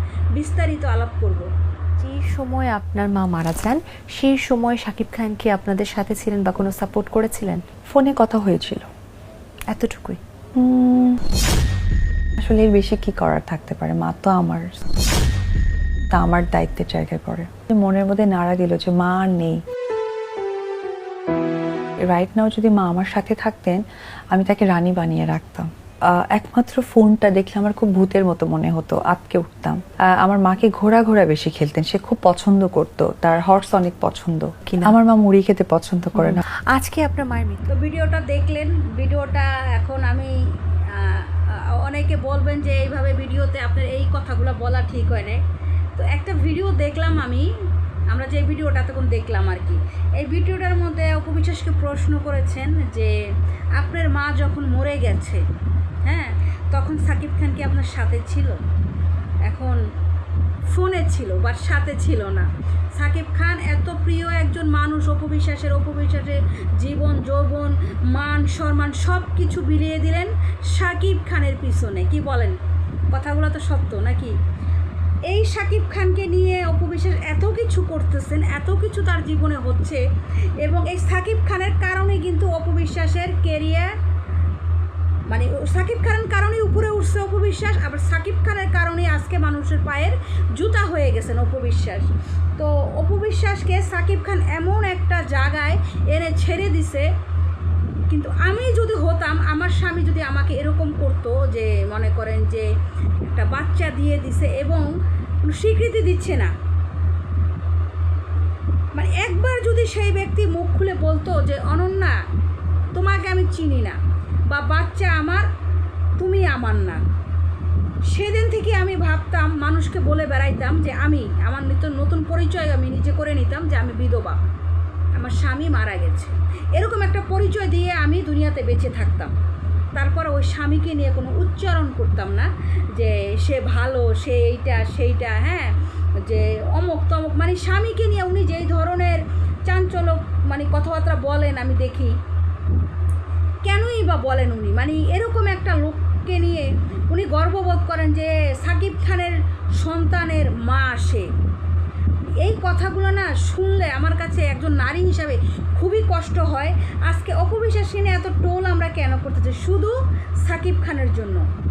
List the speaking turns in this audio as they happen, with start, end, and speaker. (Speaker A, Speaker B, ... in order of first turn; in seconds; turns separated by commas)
Speaker A: 0.3-1.5, Speaker B: 2.0-7.6, Speaker C: 7.9-8.9, Speaker B: 9.7-10.2, Speaker C: 10.6-11.2, Speaker C: 12.4-14.8, Speaker C: 16.1-19.6, Speaker C: 22.0-36.4, Speaker B: 36.1-37.6, Speaker A: 37.7-40.4, Speaker A: 40.9-45.4, Speaker A: 46.0-47.5, Speaker A: 48.1-53.1, Speaker A: 53.8-55.4, Speaker A: 56.0-58.6, Speaker A: 59.5-59.8, Speaker A: 60.7-72.6, Speaker A: 73.1-74.3, Speaker A: 75.3-80.0, Speaker A: 80.6-83.9, Speaker A: 85.3-97.1, Speaker A: 98.1-102.7, Speaker A: 103.2-104.9, Speaker A: 105.4-106.5, Speaker A: 109.0-112.2, Speaker A: 113.0-114.0, Speaker A: 114.5-115.5, Speaker A: 116.2-117.0, Speaker A: 118.1-124.4, Speaker A: 125.2-129.3, Speaker A: 130.0-135.7, Speaker A: 136.2-142.2, Speaker A: 143.6-151.3, Speaker A: 152.4-161.4